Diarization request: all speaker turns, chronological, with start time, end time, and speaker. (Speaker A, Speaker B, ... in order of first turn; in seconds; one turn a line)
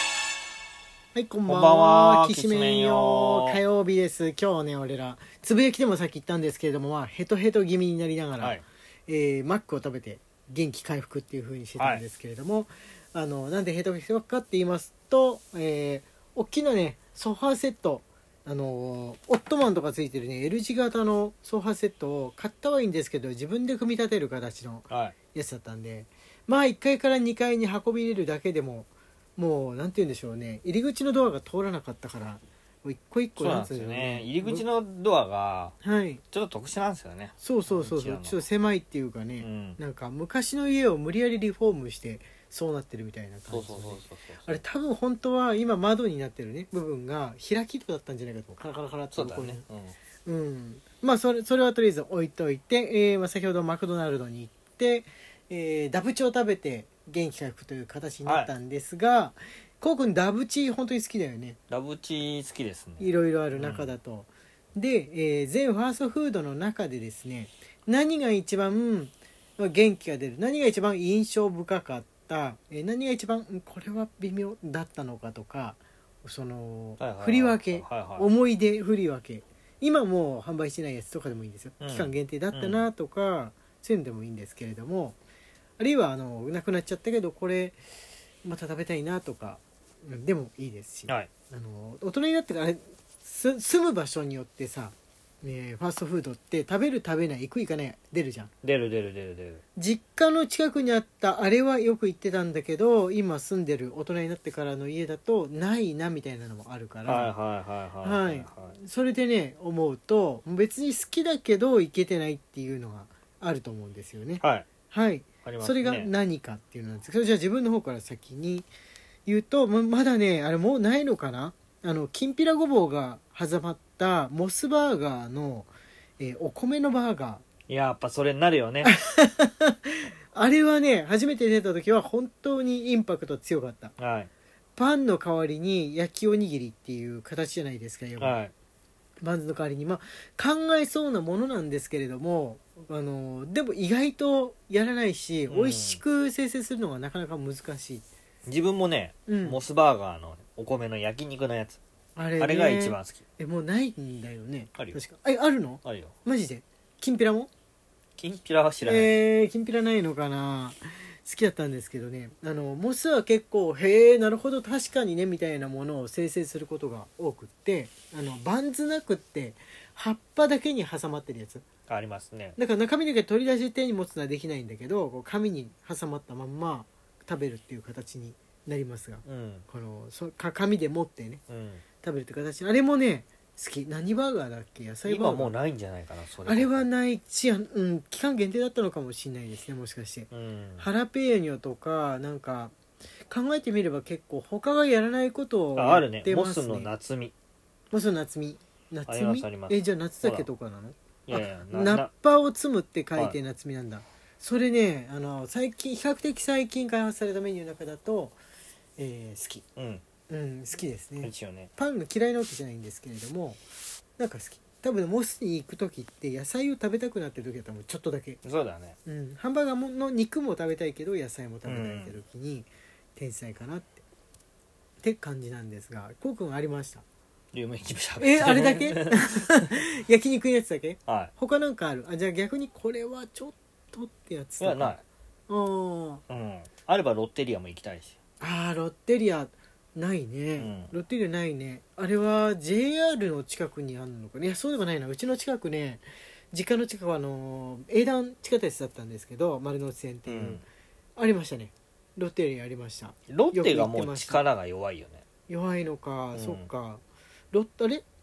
Speaker A: 1.1-34.6
Speaker B: 1.5-3.6
Speaker B: 11.8-12.0
Speaker B: 24.9-25.2
Speaker B: 33.4-35.8
Speaker A: 35.8-36.2
Speaker B: 36.3-38.4
Speaker A: 37.4-49.6
Speaker B: 39.4-39.8
Speaker B: 43.5-44.6
Speaker B: 49.1-50.0
Speaker A: 50.2-61.6
Speaker B: 58.2-58.5
Speaker B: 61.7-63.9
Speaker A: 63.0-85.2
Speaker B: 77.0-78.3
Speaker B: 81.8-82.9
Speaker A: 85.8-87.8
Speaker A: 88.4-98.5
Speaker B: 98.6-99.6
Speaker A: 99.8-107.3
Speaker B: 107.1-108.8
Speaker A: 108.0-118.7
Speaker B: 114.4-114.7
Speaker B: 115.4-116.1
Speaker A: 119.3-127.4
Speaker B: 127.7-128.9
Speaker A: 128.8-133.9
Speaker B: 134.0-134.3
Speaker A: 134.8-138.4
Speaker B: 138.2-138.5
Speaker A: 139.2-148.1
Speaker B: 145.5-146.0
Speaker B: 148.5-151.8
Speaker A: 149.3-149.6
Speaker A: 152.2-157.5
Speaker B: 152.4-153.2
Speaker B: 155.8-156.2
Speaker B: 158.2-159.1
Speaker A: 158.8-171.7
Speaker B: 171.9-172.6
Speaker A: 172.6-181.4
Speaker B: 179.2-179.7
Speaker B: 181.5-181.8
Speaker A: 182.0-185.6
Speaker B: 185.1-186.9
Speaker A: 186.5-192.8
Speaker B: 190.3-190.9
Speaker A: 193.3-196.9
Speaker B: 195.8-197.3
Speaker A: 197.9-208.4
Speaker B: 199.1-200.5
Speaker B: 201.3-202.1
Speaker A: 209.0-209.7
Speaker B: 209.8-210.0
Speaker A: 210.3-213.6
Speaker B: 211.2-211.7
Speaker A: 214.2-218.4
Speaker B: 218.4-219.0
Speaker A: 219.1-224.0
Speaker B: 221.7-222.2
Speaker A: 225.0-227.1
Speaker B: 227.5-229.3
Speaker A: 228.2-235.0
Speaker B: 231.1-231.3
Speaker B: 234.6-235.0
Speaker A: 235.5-236.2
Speaker B: 236.3-238.2
Speaker A: 238.4-250.6
Speaker B: 240.6-240.9
Speaker B: 250.3-250.6
Speaker A: 251.2-254.4
Speaker B: 253.3-255.2
Speaker A: 255.5-258.1
Speaker B: 256.3-256.7